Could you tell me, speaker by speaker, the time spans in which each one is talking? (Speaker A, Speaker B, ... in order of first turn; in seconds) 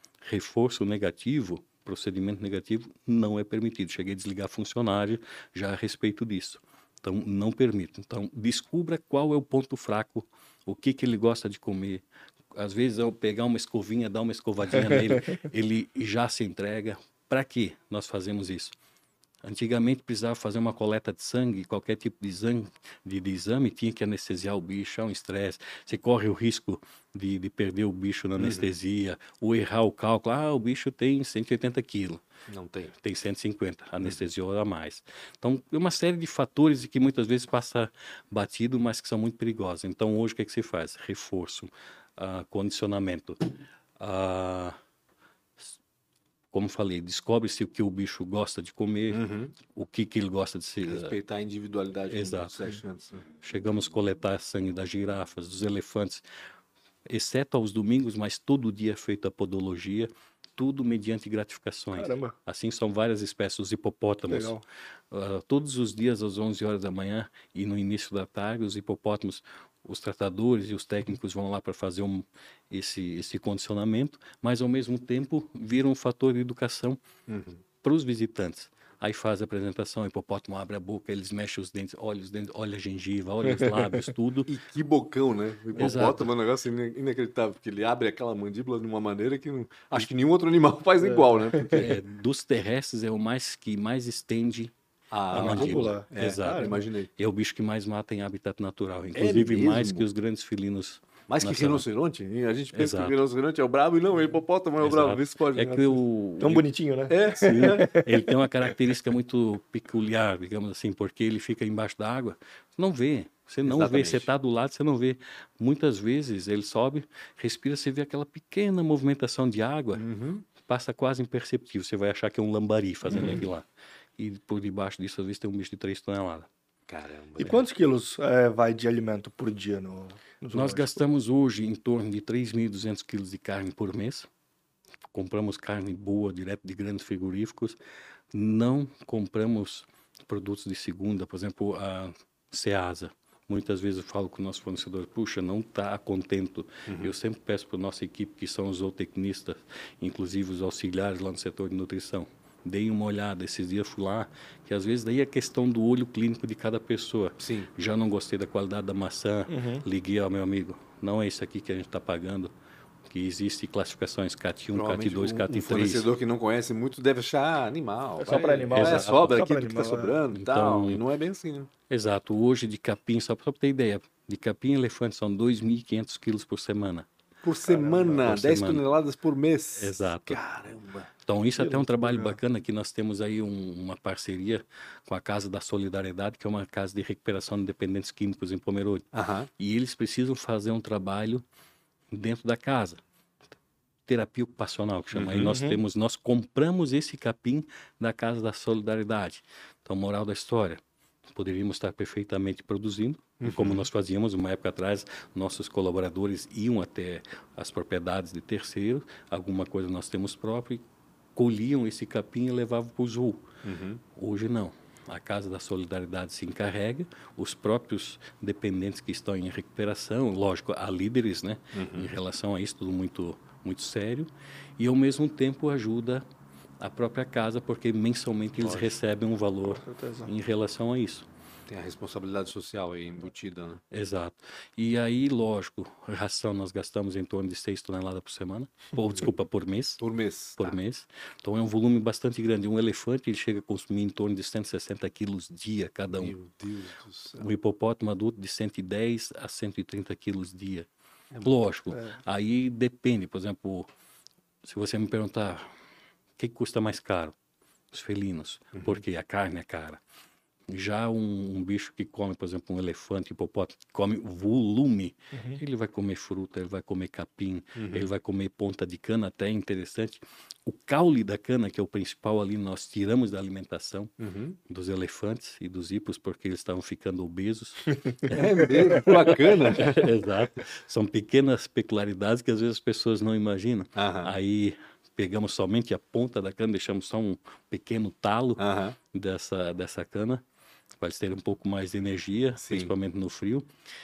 Speaker A: 0.2-12.0, 12.6-18.8, 19.4-32.2, 33.0-43.4, 44.0-44.8, 46.5-51.2, 52.1-52.6, 53.4-56.2, 57.1-64.6, 65.1-77.0, 77.8-84.5, 85.8-86.3, 91.7-94.7, 95.3-101.8, 102.7-103.2, 104.8-106.7, 107.3-120.0, 120.6-123.7, 124.2-126.5, 130.5-134.3, 135.1-137.8, 138.3-162.5, 163.1-166.1, 168.7-169.4, 170.3-171.0, 171.9-177.1, 177.8-178.8, 179.8-180.4, 181.2-189.1, 189.6-191.4, 192.1-193.0, 194.1-210.8, 211.4-213.5, 214.1-226.2, 226.8-231.3, 233.9-240.0, 240.6-246.4, 247.3-250.9, 251.4-253.9, 254.6-255.7, 256.4-257.3, 257.9-260.0, 260.7-274.1, 274.7-290.4, 291.0-293.6
Speaker B: 28.4-28.7, 32.5-32.9, 49.1-49.5, 50.9-53.3, 77.3-77.6, 84.5-92.0, 95.1-97.1, 99.2-100.0, 101.3-105.9, 107.1-107.9, 113.6-114.3, 120.0-120.5, 123.1-123.4, 126.9-127.7, 146.9-147.1, 157.4-157.7, 164.7-171.7, 177.4-181.1, 189.1-189.5, 195.1-195.6, 203.4-203.9, 213.6-214.0, 221.7-222.1, 228.6-229.0, 231.7-233.8, 240.0-240.8, 246.1-247.5, 251.3-251.6, 258.8-259.0, 267.8-268.1, 274.2-274.6, 278.3-280.1, 284.0-284.3, 288.6-289.0, 292.6-292.9
Speaker C: 61.9-62.4, 64.3-64.6, 83.5-84.1, 91.2-91.8, 95.3-96.8, 105.6-108.3, 127.4-131.0, 159.5-159.8, 168.2-170.2, 177.8-178.2, 181.6-182.4, 195.5-195.8, 229.7-230.3, 265.3-265.6